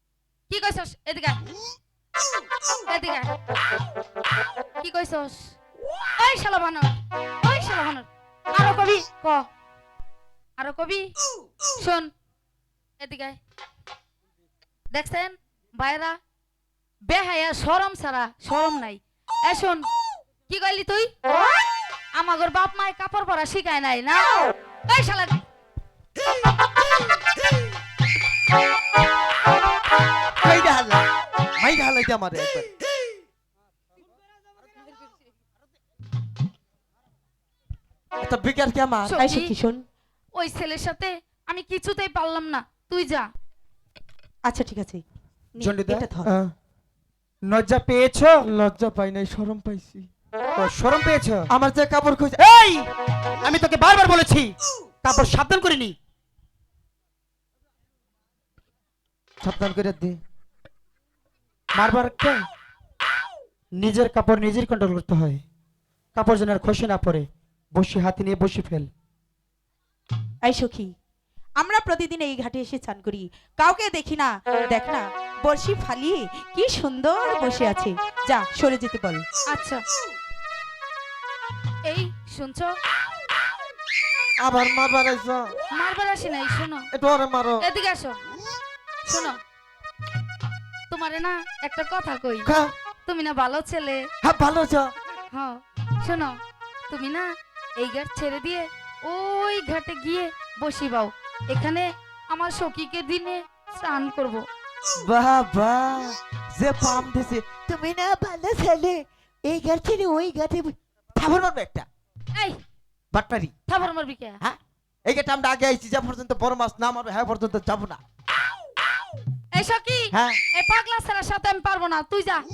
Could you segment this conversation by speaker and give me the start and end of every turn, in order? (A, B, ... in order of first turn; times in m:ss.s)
0:00.5-0:01.4 A
0:02.9-0:03.4 A
0:04.8-0:05.5 A
0:06.2-0:09.5 A
0:10.6-0:11.1 A
0:11.8-0:12.1 A
0:13.0-0:13.4 A
0:14.9-0:16.2 A
0:17.1-0:19.8 A
0:20.5-0:21.1 A
0:22.1-0:25.4 A
0:30.4-0:31.0 B
0:31.6-0:32.7 B
0:38.2-0:39.2 B
0:39.1-0:39.5 A
0:39.2-0:39.8 C
0:40.3-0:43.3 A
0:44.4-0:45.0 C
0:45.5-0:46.3 C
0:45.6-0:46.1 D
0:46.2-0:46.5 B
0:47.5-0:48.4 D
0:48.4-0:50.1 B
0:50.6-0:51.5 D
0:51.5-0:52.4 B
0:52.4-0:52.9 D
0:53.4-0:56.0 D
0:59.4-1:00.2 B
1:01.7-1:02.4 D
1:03.8-1:05.4 D
1:06.2-1:08.9 D
1:10.4-1:10.9 C
1:11.6-1:19.2 C
1:19.5-1:19.8 A
1:21.8-1:22.8 A
1:24.4-1:25.6 B
1:25.7-1:26.9 A
1:26.9-1:27.6 B
1:27.6-1:28.2 A
1:29.0-1:29.4 A
1:30.9-1:32.5 A
1:32.4-1:32.7 B
1:33.1-1:34.0 A
1:34.2-1:34.9 B
1:35.3-1:36.4 A
1:36.9-1:37.3 A
1:37.8-1:44.4 A
1:45.0-1:51.9 B
1:53.1-1:53.5 B
1:53.7-1:54.4 A
1:54.4-1:58.0 B
1:59.5-2:02.4 A
2:00.1-2:00.4 B